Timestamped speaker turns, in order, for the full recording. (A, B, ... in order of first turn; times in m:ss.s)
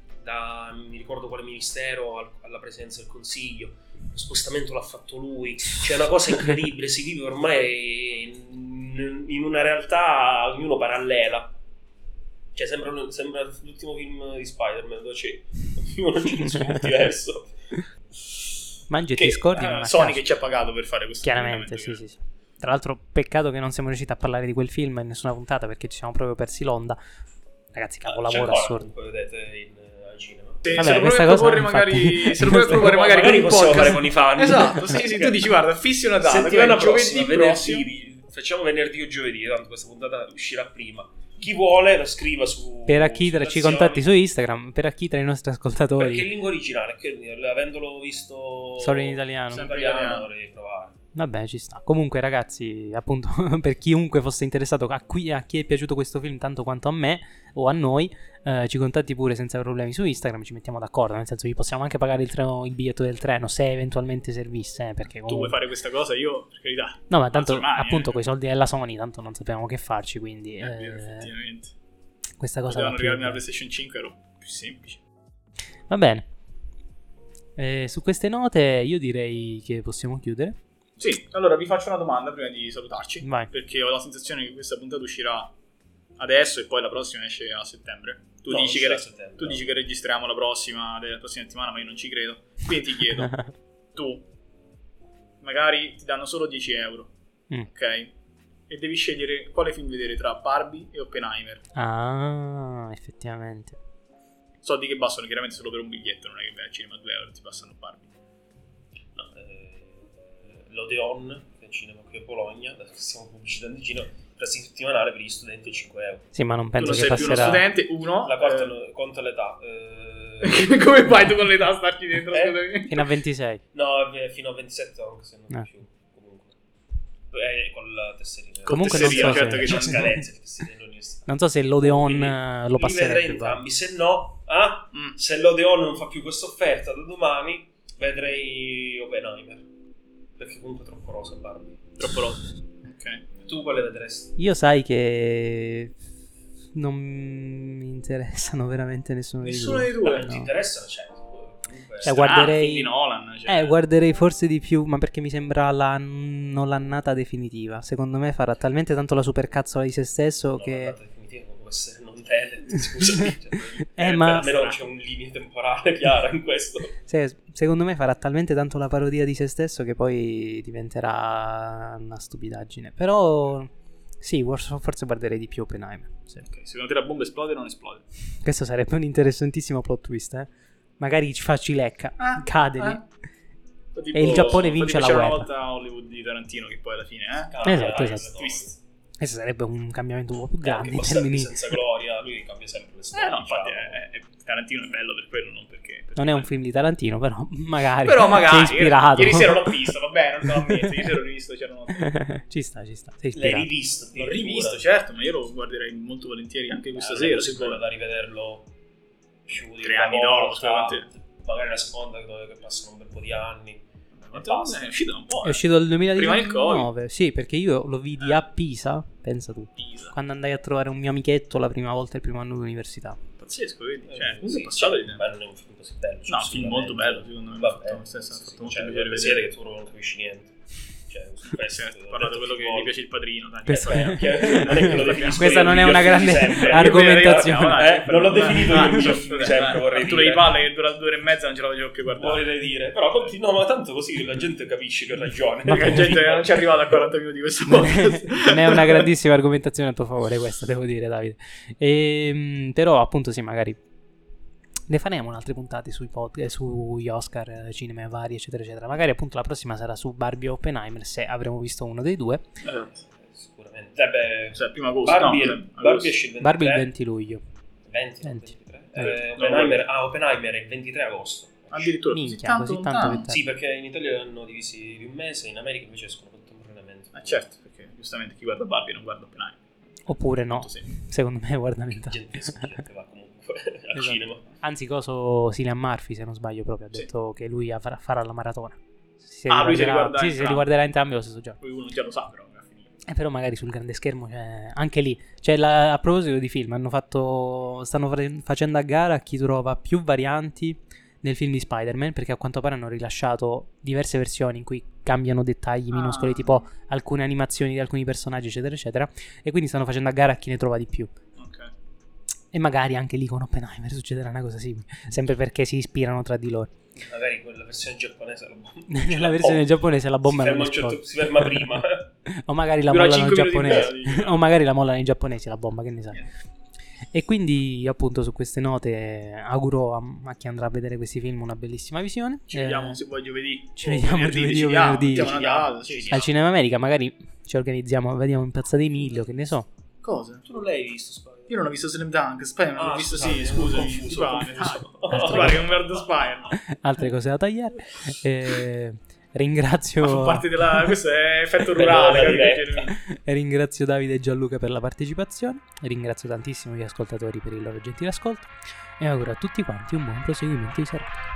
0:00.2-0:11.5 A
0:12.5-0:18.4 A
0:18.9-0:20.2 B
0:19.1-0:22.0 C
0:21.2-0:27.0 B
0:27.7-0:28.9 B
0:28.0-0:31.0 A
0:30.6-0:37.9 C
0:30.8-0:33.0 B
0:32.6-0:35.4 A
0:36.2-0:44.0 A
0:42.9-0:46.3 B
0:46.0-0:51.0 A
0:48.8-0:49.7 B
0:49.5-0:50.3 C
0:51.1-1:05.6 B
1:05.2-1:08.2 C
1:07.1-1:11.3 B
1:10.6-1:11.7 C
1:12.4-1:13.4 B
1:12.7-1:15.0 C
1:15.9-1:16.3 B
1:17.6-1:20.6 B
1:21.0-1:25.5 C
1:23.2-1:23.5 B
1:26.2-1:33.4 C
1:28.5-1:29.7 A
1:33.9-1:34.2 C
1:35.4-1:37.1 C
1:37.6-1:38.1 C
1:38.7-1:41.6 C
1:41.8-1:43.8 B
1:44.6-1:48.1 C
1:49.1-1:56.3 A
1:56.3-1:57.7 B
1:56.8-1:58.7 C
1:57.2-1:57.7 A
1:58.2-2:00.6 A
2:00.4-2:03.0 C
2:02.3-2:02.6 A
2:02.9-2:03.6 B
2:03.7-2:06.6 A
2:07.3-2:19.7 A
2:08.7-2:10.2 B
2:08.7-2:10.2 C
2:11.3-2:13.6 B
2:20.4-2:22.0 A
2:22.0-2:23.2 C
2:23.4-2:24.3 A
2:24.4-2:25.9 B
2:26.7-2:30.5 B
2:29.4-2:32.5 A
2:29.6-2:30.2 C
2:32.0-2:32.9 B
2:32.0-2:33.8 C
2:33.4-2:41.0 B
2:40.5-2:47.0 A
2:43.7-2:44.6 B
2:44.4-2:44.7 C
2:47.0-2:56.4 B
2:56.5-2:58.0 C
2:58.4-3:03.0 B
3:02.2-3:03.0 C
3:03.9-3:08.7 C
3:04.1-3:05.5 B
3:07.5-3:08.8 A
3:07.6-3:08.3 B
3:09.2-3:11.6 B
3:10.6-3:14.0 A
3:13.1-3:16.5 C
3:16.2-3:19.9 B
3:18.0-3:22.2 C
3:20.4-3:21.1 B
3:22.0-3:23.7 B
3:23.3-3:24.8 A
3:24.2-3:27.8 C
3:26.9-3:28.7 A
3:29.5-3:34.9 A
3:29.8-3:31.1 C
3:34.2-3:36.9 C
3:35.4-3:43.2 B
3:39.8-3:40.1 C
3:43.4-3:45.2 C
3:44.1-3:53.0 A
3:46.3-3:49.5 C
3:51.5-4:02.4 C
3:53.6-4:00.6 A
3:53.7-3:57.9 B
3:58.7-3:59.1 B
4:02.2-4:06.4 A
4:05.6-4:09.1 C
4:05.7-4:06.2 B
4:07.6-4:13.8 B
4:14.9-4:22.5 B
4:22.6-4:22.9 C
4:22.6-4:26.9 A
4:24.5-4:26.1 C
4:26.4-4:27.4 B
4:27.9-4:31.9 A
4:29.0-4:29.8 C
4:31.7-4:33.3 C
4:32.1-4:33.4 B
4:33.3-4:37.4 A
4:37.1-4:39.6 C
4:40.1-4:42.7 B
4:40.5-4:40.9 C
4:42.0-4:44.4 A
4:43.9-4:51.6 B
4:49.5-4:50.7 C
4:51.6-4:52.9 C
4:53.0-5:11.1 B
5:05.9-5:06.6 C
5:11.4-5:11.7 C
5:12.5-5:16.7 B
5:16.9-5:19.7 A
5:18.9-5:26.2 B
5:20.2-5:22.1 A
5:22.9-5:24.4 C
5:27.0-5:33.0 B
5:32.5-5:36.2 C
5:33.8-5:35.4 B
5:35.0-5:36.3 A
5:36.1-5:39.7 B
5:40.0-5:40.4 C
5:40.4-5:41.6 A
5:41.5-5:46.6 C
5:42.8-5:46.1 A
5:45.1-5:45.7 B
5:46.6-5:50.9 B
5:50.0-5:53.0 C
5:51.7-5:52.8 A
5:52.9-6:01.2 B